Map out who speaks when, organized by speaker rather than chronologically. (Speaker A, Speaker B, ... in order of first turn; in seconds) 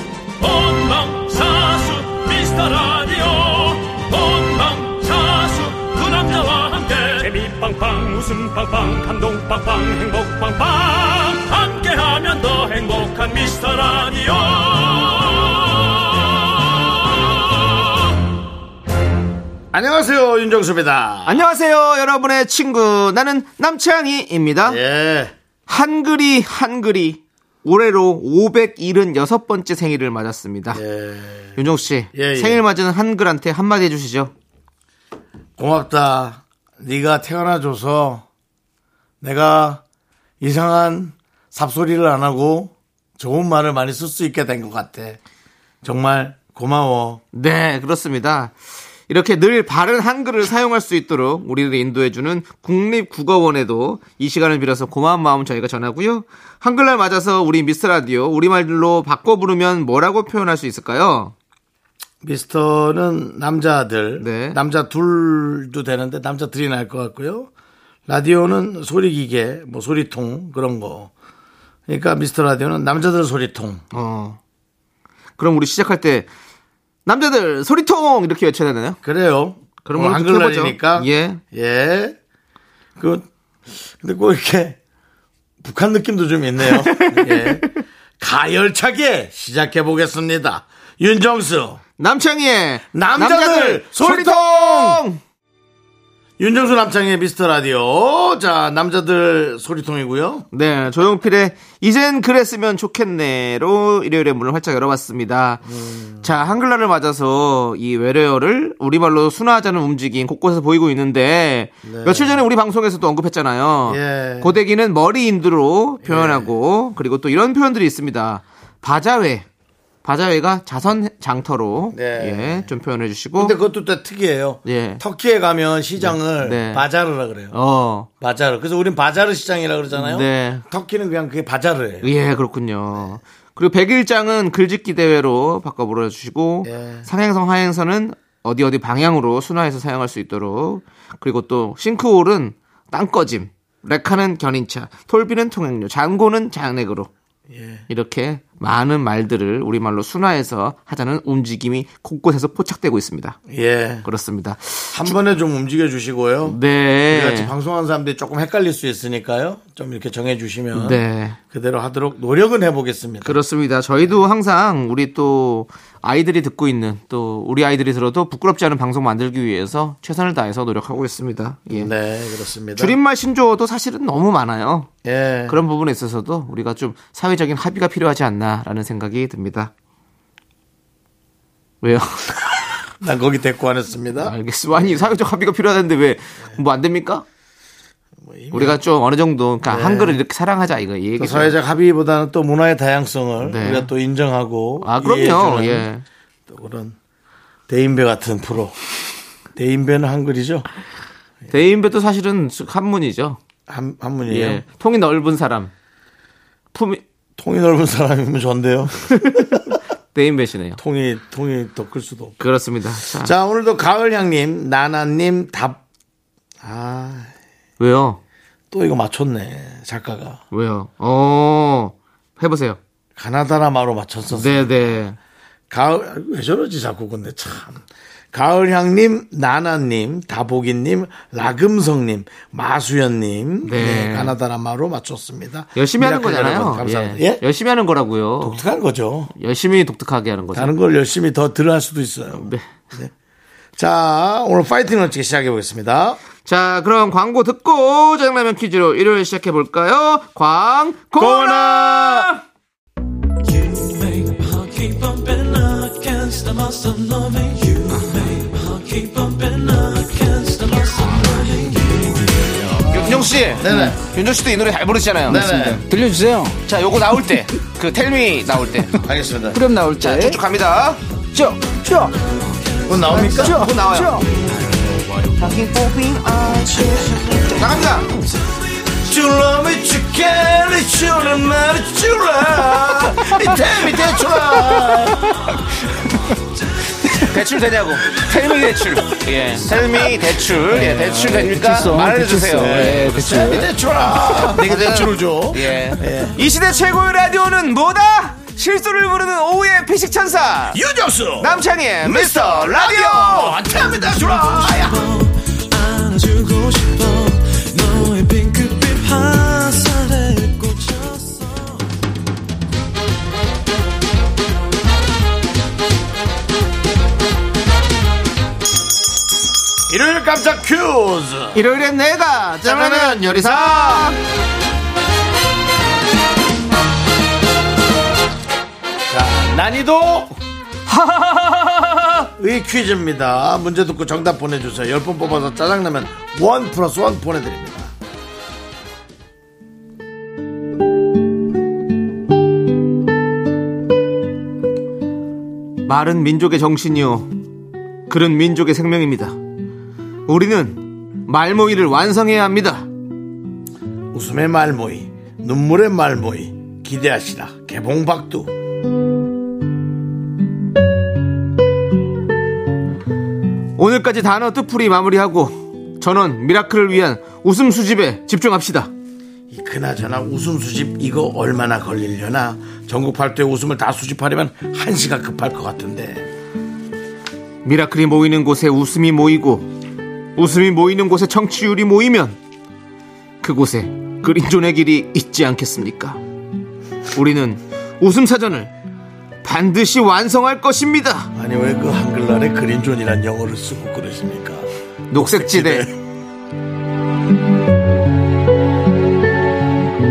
Speaker A: 0.4-17.9
Speaker B: 19.7-21.5, 24.7-25.3, 30.7-31.6, 32.1-32.6, 35.6-38.2, 39.2-39.8, 40.4-45.2, 45.8-47.2, 62.2-67.5, 68.1-71.1, 71.9-73.8, 79.0-82.2, 83.0-84.8, 85.6-87.7, 88.2-91.8, 92.9-95.0, 96.4-100.5, 105.7-106.3, 111.8-112.4, 113.9-114.6, 116.0-116.5, 121.9-122.7, 123.4-127.5, 128.2-132.1, 136.7-137.1, 147.5-147.8, 153.5-154.1, 154.9-156.6, 157.1-163.4, 171.7-173.0, 175.0-175.6, 183.0-184.3, 188.2-188.8, 189.7-190.2, 191.2-195.9, 196.5-197.0, 197.7-198.8, 199.6-200.7, 203.7-204.6, 207.4-209.6, 210.8-212.4, 213.1-215.8, 216.6-217.3, 218.7-220.4, 223.2-224.9, 225.7-237.4, 238.4-239.3, 240.5-243.1, 243.8-246.2, 251.2-252.3, 263.5-264.0, 265.3-265.8, 269.0-269.6, 272.9-273.7, 279.0-285.5, 292.6-296.4, 300.7-305.1, 319.9-321.6, 322.6-324.1, 329.1-330.4, 332.4-337.9, 354.1-358.5, 369.5-376.3, 391.3-395.9
Speaker C: 21.3-24.8, 25.7-30.8, 31.6-34.3, 47.3-48.5, 49.1-61.3, 64.2-64.6, 73.9-74.4, 75.4-76.3, 77.1-79.0, 79.8-81.4, 86.7-87.7, 92.0-95.2, 100.5-105.6, 106.2-119.5, 120.0-123.6, 124.7-125.0, 126.0-126.8, 127.5-128.1, 129.9-130.7, 132.0-147.1, 147.9-153.4, 154.0-155.2, 156.4-157.5, 160.7-161.4, 163.2-171.9, 172.8-174.9, 175.5-179.7, 181.8-182.8, 184.2-187.2, 188.5-191.6, 193.4-193.9, 194.8-196.0, 201.5-203.4, 204.3-205.7, 206.7-207.0, 209.1-210.8, 212.4-213.3, 217.8-218.2, 220.5-222.8, 224.3-225.2, 233.6-234.3, 235.8-238.6, 239.4-240.7, 246.4-252.4, 262.9-265.5, 266.7-269.0, 269.9-271.0, 273.3-274.2, 277.5-278.1, 287.2-293.6, 294.4-300.8, 301.4-303.6, 321.5-324.2, 330.9-332.3, 345.9-347.3, 348.1-349.4, 350.3-352.9, 363.8-368.9, 377.6-379.7, 380.4-382.4, 383.4-386.2, 387.1-388.7, 389.4-391.3, 395.1-395.9
Speaker D: 253.6-262.3, 304.8-311.4
Speaker E: 263.7-263.9, 265.3-266.6, 269.5-270.4, 271.3-272.1, 273.1-274.3, 275.4-277.3, 290.7-293.7